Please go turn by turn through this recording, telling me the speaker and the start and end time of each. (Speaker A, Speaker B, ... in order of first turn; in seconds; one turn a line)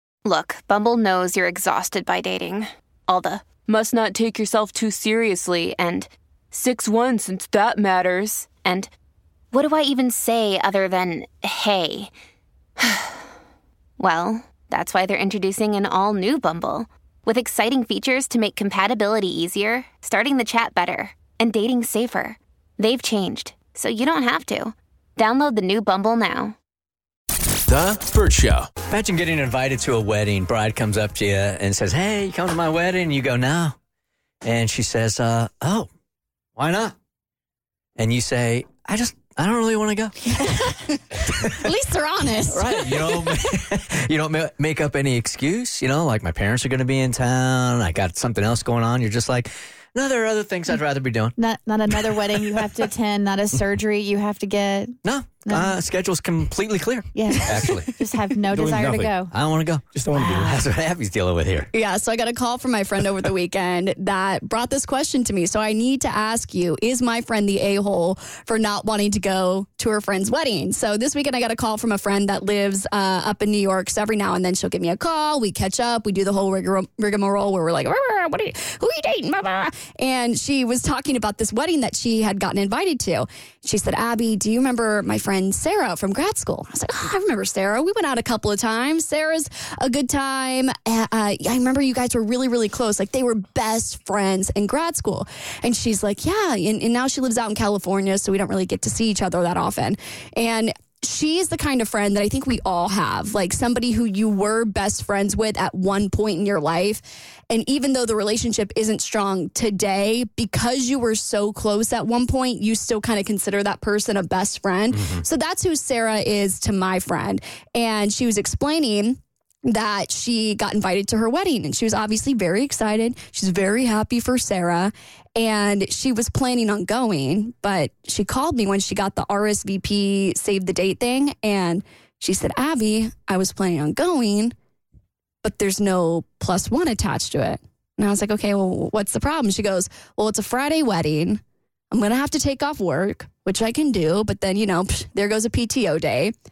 Speaker A: 0.2-8.9
Speaker A: 9.5-12.1
Speaker A: 12.8-13.2
Speaker A: 14.0-26.6
Speaker B: 27.7-28.7
Speaker C: 28.9-33.8
Speaker C: 34.4-35.9
Speaker C: 36.6-37.0
Speaker C: 38.0-40.3
Speaker C: 41.3-41.6
Speaker D: 41.6-43.3
Speaker C: 42.5-51.4
Speaker E: 51.4-55.0
Speaker C: 51.9-52.6
Speaker C: 55.0-57.9
Speaker E: 55.5-55.8
Speaker E: 57.1-59.3
Speaker B: 58.5-59.2
Speaker C: 59.3-61.7
Speaker B: 60.0-60.5
Speaker E: 60.1-60.6
Speaker D: 61.7-119.2
Speaker C: 114.9-115.2
Speaker D: 119.7-134.5
Speaker D: 135.4-146.3